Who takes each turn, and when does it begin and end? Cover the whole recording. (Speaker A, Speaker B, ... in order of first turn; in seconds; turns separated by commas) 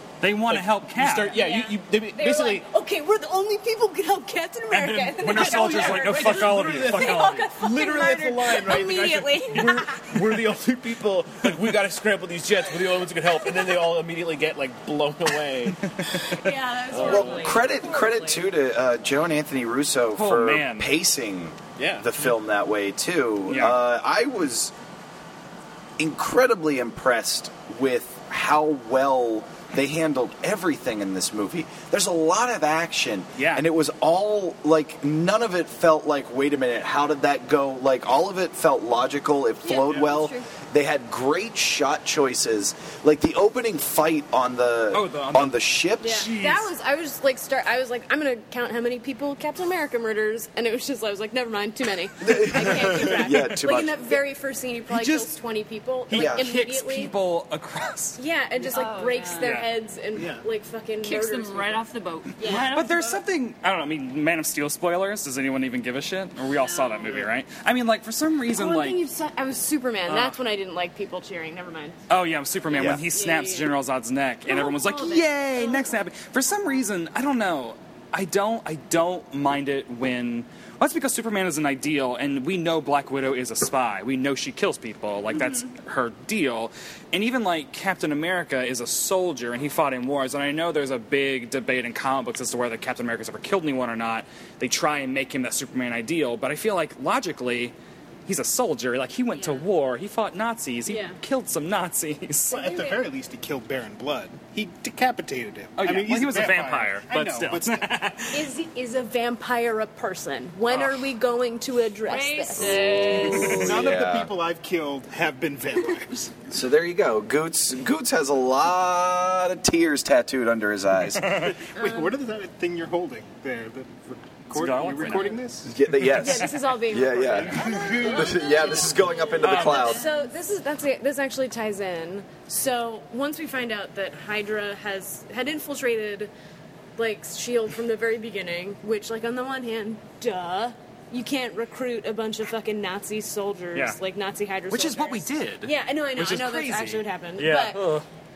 Speaker A: 0.2-1.4, Speaker B: 0.5-2.7, Speaker C: 1.3-10.2, Speaker A: 4.7-7.5, Speaker B: 5.2-16.3, Speaker C: 16.2-18.4, Speaker B: 16.9-17.6, Speaker D: 17.0-24.7, Speaker A: 20.2-20.9, Speaker B: 21.8-22.1, Speaker A: 23.5-23.8, Speaker D: 26.0-46.3, Speaker A: 33.4-33.6, Speaker E: 39.6-40.4, Speaker A: 44.9-46.7, Speaker C: 46.0-57.1, Speaker D: 52.2-54.2, Speaker A: 54.9-55.3, Speaker A: 56.1-58.2, Speaker D: 56.1-56.5, Speaker C: 58.2-61.8, Speaker E: 58.6-59.6, Speaker A: 59.4-59.7, Speaker F: 60.2-60.4, Speaker E: 61.0-63.2, Speaker C: 62.4-62.7, Speaker A: 62.4-69.0, Speaker E: 66.6-67.3, Speaker C: 68.5-72.0, Speaker A: 70.1-70.4, Speaker A: 72.1-97.7, Speaker D: 72.7-73.0, Speaker C: 73.1-73.7, Speaker C: 74.5-76.0, Speaker A: 98.3-102.6, Speaker C: 100.9-101.2, Speaker C: 102.5-103.1, Speaker F: 102.5-107.9, Speaker A: 105.8-108.5, Speaker C: 108.3-113.1, Speaker A: 110.7-111.0, Speaker E: 112.0-113.8, Speaker D: 112.6-114.3, Speaker F: 113.5-116.4, Speaker D: 116.5-121.5, Speaker A: 121.2-121.5, Speaker F: 121.7-125.8, Speaker C: 121.8-122.1, Speaker A: 124.5-125.4, Speaker D: 125.7-130.0, Speaker C: 126.0-136.3, Speaker A: 126.0-126.5, Speaker E: 129.3-130.1, Speaker A: 129.4-130.0, Speaker C: 137.0-147.9, Speaker A: 144.7-148.1